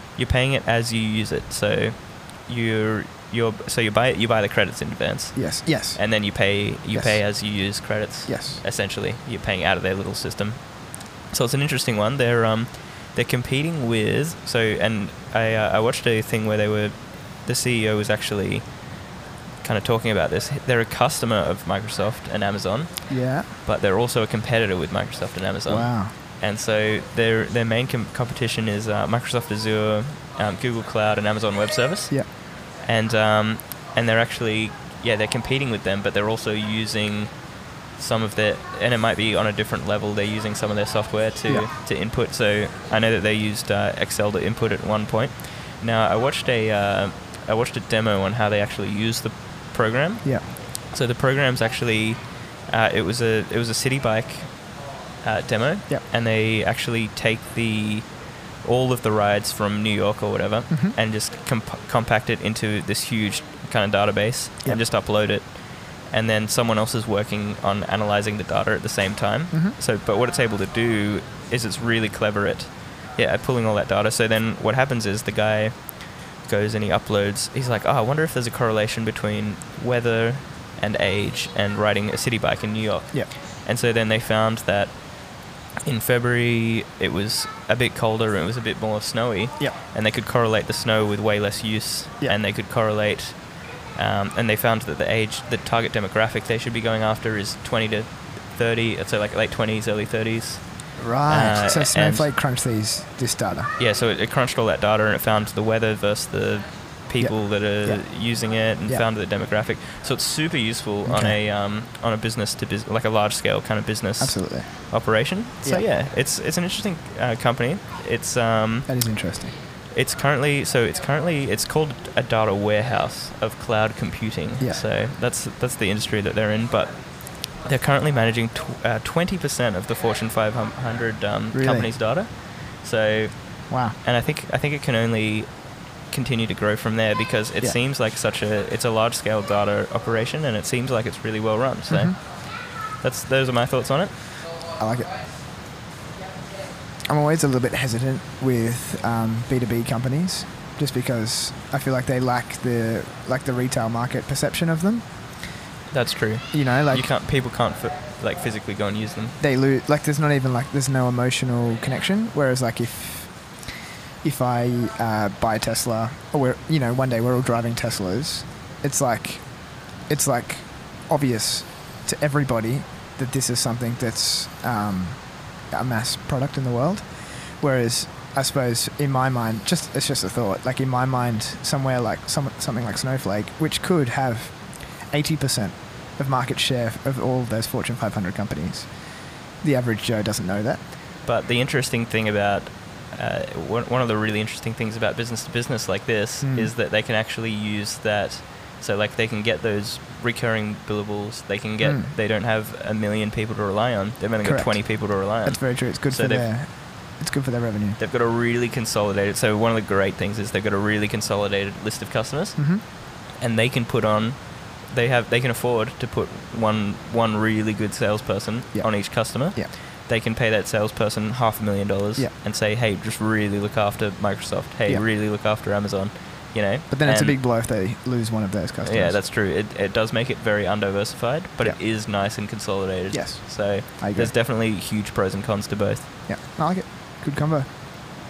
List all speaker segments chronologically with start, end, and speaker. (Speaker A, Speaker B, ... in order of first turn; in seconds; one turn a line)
Speaker A: 0.1-10.7
Speaker B: 5.3-6.2
Speaker B: 6.9-7.3
Speaker B: 8.2-8.6
Speaker A: 11.3-18.8
Speaker A: 19.6-37.4
Speaker B: 23.1-23.5
Speaker B: 25.6-26.1
Speaker A: 37.9-85.0
Speaker B: 60.7-61.0
Speaker A: 85.8-102.3
Speaker B: 101.0-103.7
Speaker A: 103.8-119.2
Speaker B: 107.2-108.0
Speaker B: 111.0-111.4
Speaker B: 114.2-114.7
Speaker B: 118.9-119.5
Speaker A: 119.9-135.5
Speaker B: 131.5-131.9
Speaker B: 133.7-134.0
Speaker A: 136.1-142.4
Speaker B: 141.9-142.2
Speaker A: 143.0-144.2
Speaker B: 144.8-145.1
Speaker B: 147.1-155.0
Speaker A: 155.9-159.4
Speaker B: 156.5-157.1
Speaker B: 159.4-190.8
Speaker A: 191.2-206.5
Speaker B: 196.4-196.7
Speaker B: 201.8-202.1
Speaker B: 204.4-208.0
Speaker A: 208.0-227.4
Speaker B: 212.6-212.8
Speaker B: 218.7-219.7
Speaker B: 226.9-229.2
Speaker A: 228.8-236.1
Speaker B: 233.1-234.3
Speaker B: 236.3-237.7